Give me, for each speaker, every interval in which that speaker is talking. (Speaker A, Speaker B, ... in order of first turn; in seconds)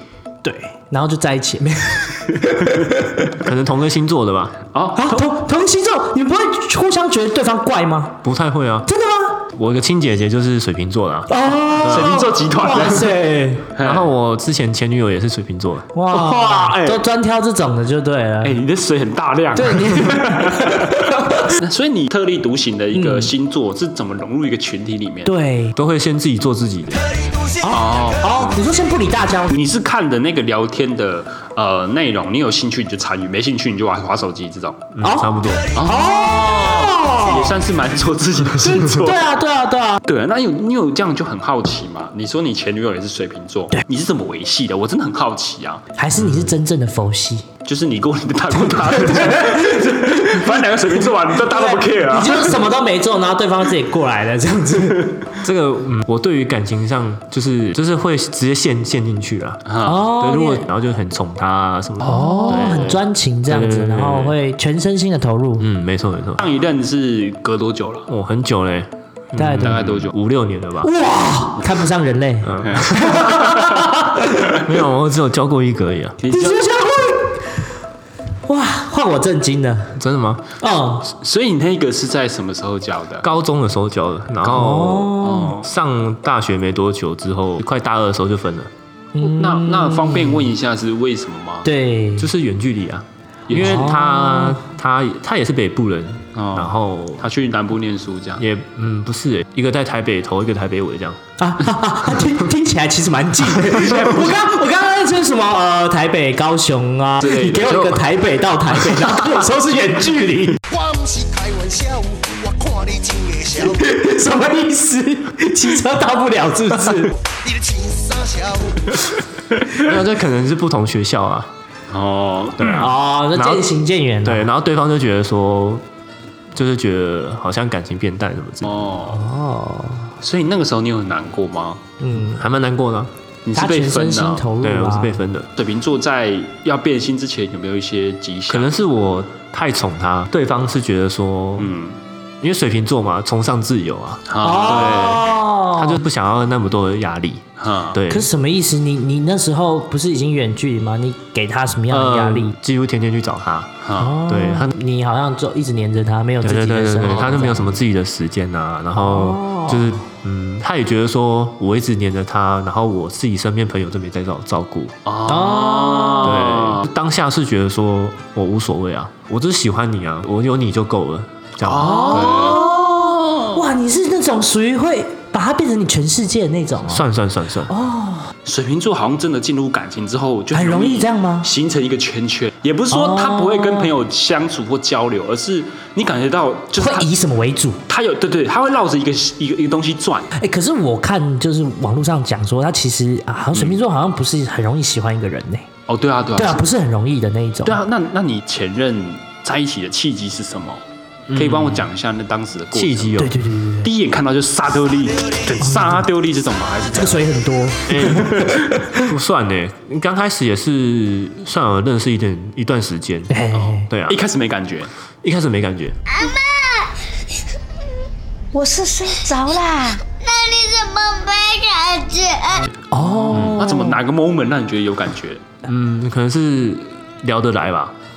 Speaker A: 0.4-3.1, 5.0-8.2, 8.8-9.4, 11.3-13.7, 15.9-18.6, 19.5-21.5, 22.9-23.3, 25.2-25.8, 27.6-29.5, 35.0-37.6, 38.6-40.0, 46.0-47.4, 48.6-55.3, 59.8-60.7, 62.0-65.7, 69.3-69.8, 70.8-74.5, 76.3-77.6, 78.5-80.0, 80.6-81.1, 84.4-85.5, 89.1-90.5, 91.6-92.3, 93.5-94.6, 101.4-110.6, 113.5-117.1, 122.7-124.5, 129.1-130.1, 132.0-132.4, 133.5-135.2, 144.4-146.0, 148.1-152.5, 154.0-157.7, 159.0-159.9, 165.2-166.4, 171.7-177.0, 177.7-178.3, 180.5-181.5, 182.9-183.9, 186.8-187.8, 190.4-195.6, 196.3-197.8, 203.2-203.9, 205.7-206.0, 206.9-209.1, 213.3-213.9, 218.5-219.9, 222.9-224.0
Speaker B: 2.5-2.8, 4.7-5.3, 11.8-13.1, 13.8-14.1, 16.1-17.0, 18.4-25.3, 27.7-28.6, 29.5-34.8, 35.7-39.2, 40.1-45.8, 47.6-52.6, 59.6-60.0, 62.0-62.8, 66.4-68.1, 69.6-70.1, 72.7-73.8, 76.2-76.6, 81.1-83.3, 85.2-85.6, 89.2-91.7, 93.5-93.9, 96.3-98.4, 107.2-107.7, 121.9-122.8, 128.6-129.3, 130.2-131.8, 133.4-134.4, 135.5-138.7, 141.6-142.0, 144.3-145.2, 147.6-148.0, 153.8-154.1, 165.1-166.8, 171.6-173.6, 178.4-187.1, 187.9-190.3, 193.5-193.8, 195.9-196.6, 197.6-203.3, 203.8-207.3, 208.0-208.7, 213.5-214.9, 223.0-225.4
Speaker C: 3.4-4.6, 8.2-8.9, 9.5-11.3, 11.8-12.2, 13.8-15.9, 25.7-27.1, 35.0-35.7, 46.1-46.5, 55.4-64.3, 65.6-66.4, 68.1-70.9, 72.4-73.3, 74.5-76.2, 80.0-80.4, 83.2-88.7, 92.2-97.3, 98.4-101.2, 107.3-108.0, 119.7-121.5, 122.6-123.7, 124.2-125.8, 126.5-128.8, 132.2-133.1, 134.6-135.5, 138.5-141.7, 142.4-148.3, 151.9-154.8, 156.4-164.9, 166.2-172.5, 176.8-177.7, 201.3-201.8, 202.7-203.4, 207.9-208.4, 209.0-213.3, 213.9-214.2, 215.2-216.0, 223.3-223.6, 225.6-227.9
Speaker D: 110.7-113.7, 117.4-118.8
Speaker E: 216.1-216.9, 220.0-222.6